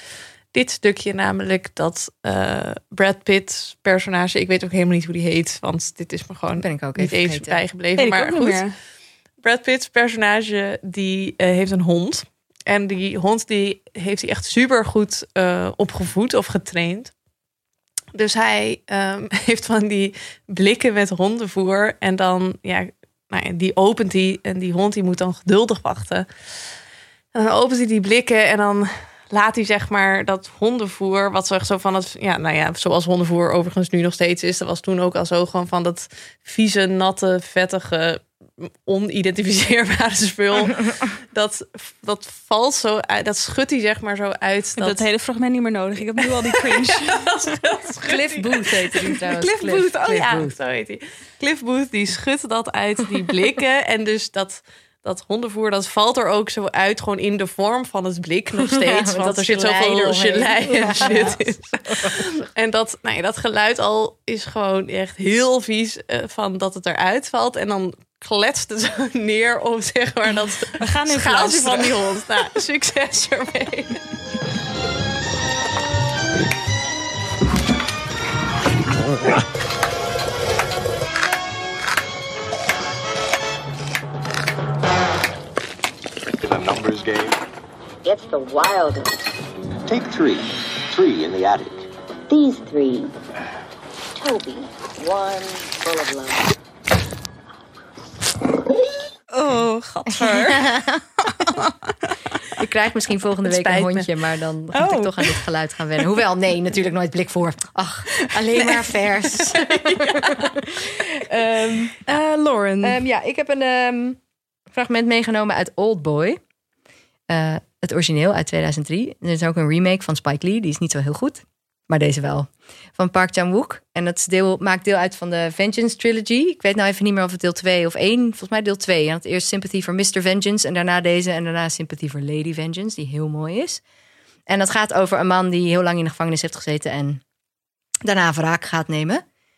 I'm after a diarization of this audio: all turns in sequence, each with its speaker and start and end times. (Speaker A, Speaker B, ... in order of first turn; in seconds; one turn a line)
Speaker A: 0.5-8.7
Speaker B: 6.5-7.6
Speaker C: 8.0-8.7
Speaker A: 9.4-17.1
Speaker A: 18.1-26.3
Speaker A: 27.3-45.0
Speaker C: 44.8-47.2
Speaker A: 46.2-74.0
Speaker B: 48.0-50.5
Speaker B: 58.6-62.2
Speaker C: 61.0-61.4
Speaker C: 70.8-72.0
Speaker D: 86.4-87.4
Speaker E: 88.0-89.2
Speaker D: 89.9-91.8
Speaker E: 92.3-93.1
Speaker E: 94.2-96.4
Speaker C: 99.3-101.9
Speaker B: 100.1-101.0
Speaker B: 102.5-112.0
Speaker A: 103.5-104.1
Speaker C: 104.7-105.4
Speaker A: 109.8-110.3
Speaker C: 112.1-113.0
Speaker B: 112.8-114.2
Speaker B: 114.7-116.4
Speaker B: 117.3-133.8
Speaker B: 134.5-137.2
Speaker B: 138.0-139.2